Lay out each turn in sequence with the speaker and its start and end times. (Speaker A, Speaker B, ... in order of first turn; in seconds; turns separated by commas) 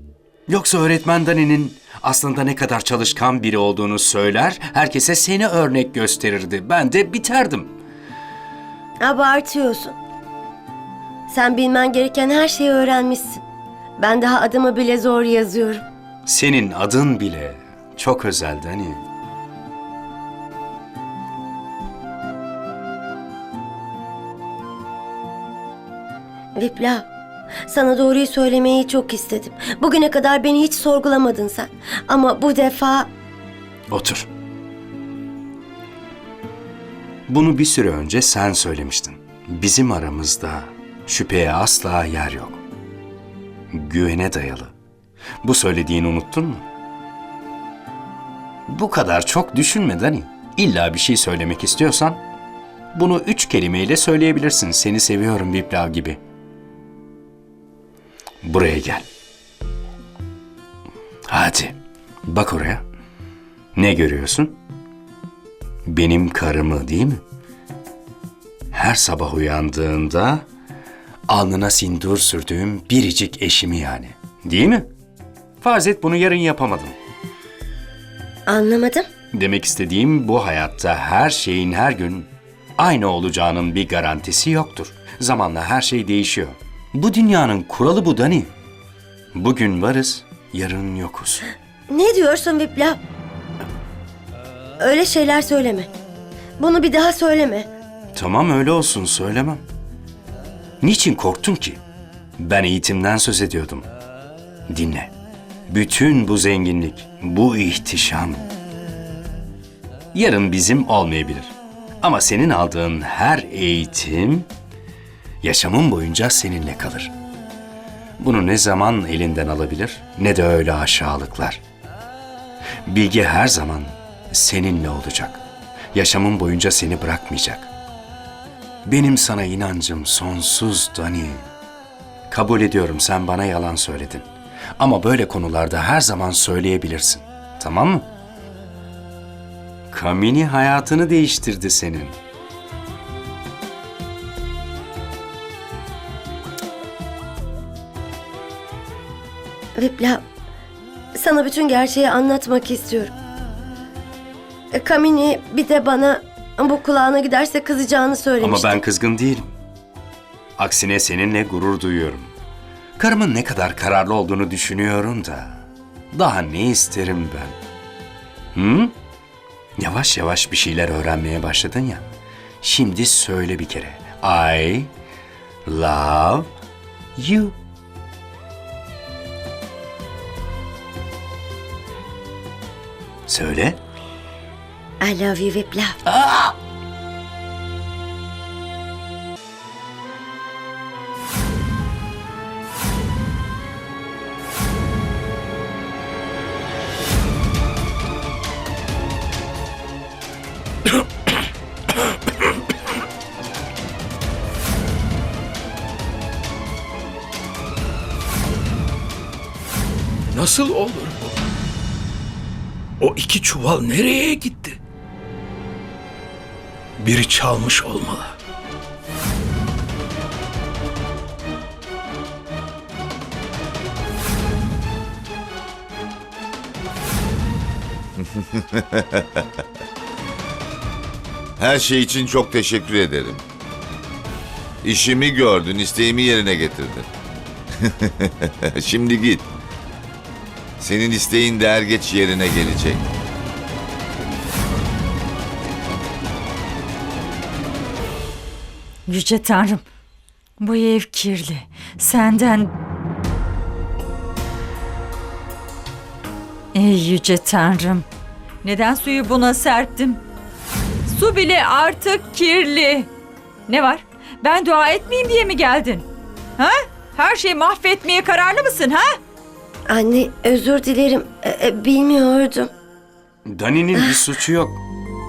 Speaker A: 0.5-7.7, Speaker B: 9.0-10.0, Speaker B: 11.3-13.4, Speaker B: 14.0-15.8, Speaker A: 16.2-19.0, Speaker B: 26.6-27.1, Speaker B: 27.7-33.1, Speaker A: 33.9-34.2, Speaker A: 37.3-42.6, Speaker A: 43.7-44.7, Speaker A: 45.4-46.6, Speaker A: 48.7-52.2, Speaker A: 52.9-56.2, Speaker A: 58.4-59.0, Speaker A: 61.3-62.8, Speaker A: 63.8-64.6, Speaker A: 65.9-67.2, Speaker A: 68.7-70.5, Speaker A: 71.3-74.9, Speaker A: 75.6-77.0, Speaker B: 78.5-79.1, Speaker A: 79.3-88.5, Speaker A: 89.3-91.4, Speaker B: 91.9-93.0, Speaker B: 94.8-95.9, Speaker B: 96.6-97.7, Speaker A: 98.1-99.6, Speaker A: 100.8-101.8, Speaker A: 102.4-103.9, Speaker A: 104.7-105.1, Speaker A: 105.7-108.4, Speaker A: 110.1-114.5, Speaker A: 115.4-117.1, Speaker A: 118.2-121.6, Speaker A: 122.9-125.4, Speaker A: 125.9-127.7, Speaker A: 128.9-131.4, Speaker A: 132.3-134.2, Speaker A: 134.8-138.1, Speaker A: 139.9-142.2, Speaker B: 149.8-150.2, Speaker B: 151.1-153.1, Speaker B: 154.7-158.8, Speaker A: 158.4-159.5, Speaker A: 160.6-162.3, Speaker A: 163.0-167.6, Speaker A: 168.6-168.9, Speaker A: 169.8-172.1, Speaker A: 172.6-174.9, Speaker A: 175.7-176.5, Speaker A: 177.2-177.6, Speaker A: 183.3-183.8, Speaker B: 185.0-186.0, Speaker A: 186.1-186.5, Speaker C: 210.3-211.3, Speaker C: 213.0-214.8, Speaker C: 217.0-218.3, Speaker D: 228.2-229.2, Speaker D: 231.6-233.4, Speaker D: 234.8-237.1, Speaker D: 237.8-239.5, Speaker D: 240.8-243.0, Speaker E: 249.1-249.8, Speaker E: 250.6-252.7, Speaker E: 256.7-258.1, Speaker E: 258.6-260.2, Speaker E: 261.1-263.1, Speaker E: 263.7-266.1, Speaker E: 266.6-269.2, Speaker B: 269.9-272.7, Speaker A: 273.4-274.8